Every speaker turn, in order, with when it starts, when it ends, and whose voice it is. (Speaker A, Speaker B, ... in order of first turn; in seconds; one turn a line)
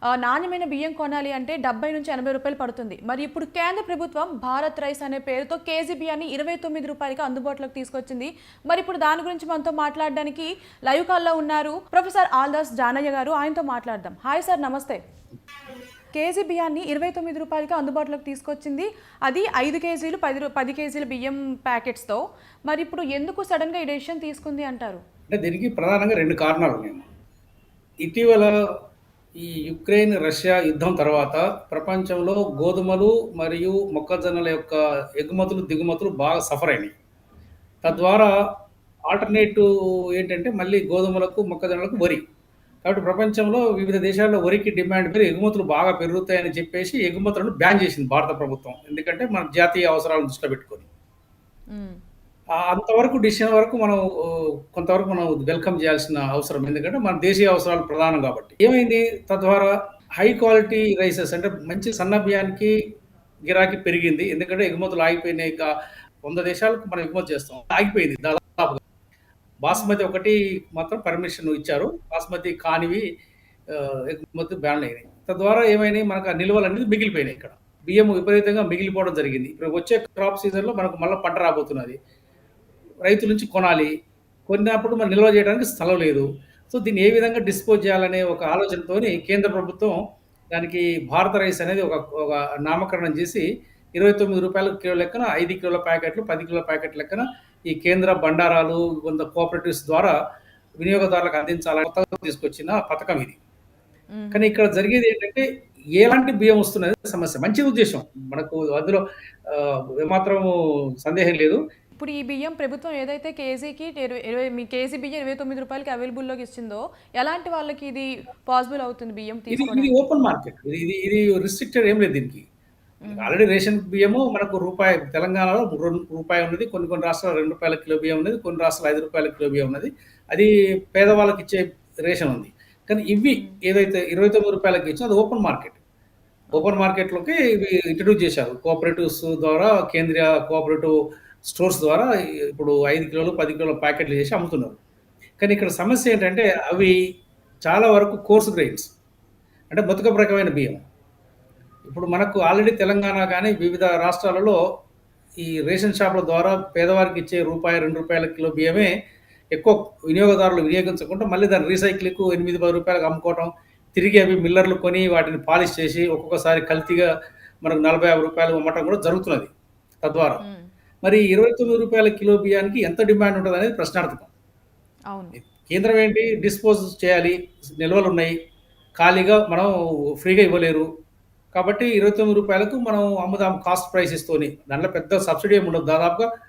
Speaker A: 0.2-15.0
Speaker A: 16.1-25.0
Speaker B: 25.3-27.1
Speaker B: 28.0-28.5
Speaker B: 29.4-36.9
Speaker B: 37.8-38.3
Speaker A: 37.9-38.1
Speaker B: 39.1-42.2
Speaker B: 42.8-50.9
Speaker A: 51.7-52.0
Speaker B: 52.6-62.8
Speaker B: 63.5-68.8
Speaker B: 69.6-73.1
Speaker A: 69.7-70.0
Speaker B: 73.7-82.0
Speaker B: 83.0-83.9
Speaker B: 84.5-90.0
Speaker B: 90.5-100.2
Speaker B: 100.8-103.4
Speaker A: 104.2-104.5
Speaker B: 104.3-105.5
Speaker B: 106.0-110.5
Speaker B: 111.0-111.6
Speaker A: 112.0-120.0
Speaker B: 119.5-122.5
Speaker A: 123.0-123.3
Speaker B: 123.1-135.8
Speaker A: 133.3-133.6
Speaker B: 136.5-144.8
Speaker B: 145.4-146.9
Speaker B: 147.7-148.9
Speaker B: 149.7-150.8
Speaker B: 151.9-154.6
Speaker B: 155.4-158.9
Speaker B: 159.5-167.1
Speaker B: 167.6-169.5
Speaker B: 170.0-170.4
Speaker A: 170.4-170.7
Speaker B: 171.0-174.3
Speaker A: 175.1-175.4
Speaker B: 175.4-178.3
Speaker B: 179.0-180.9
Speaker B: 181.5-186.3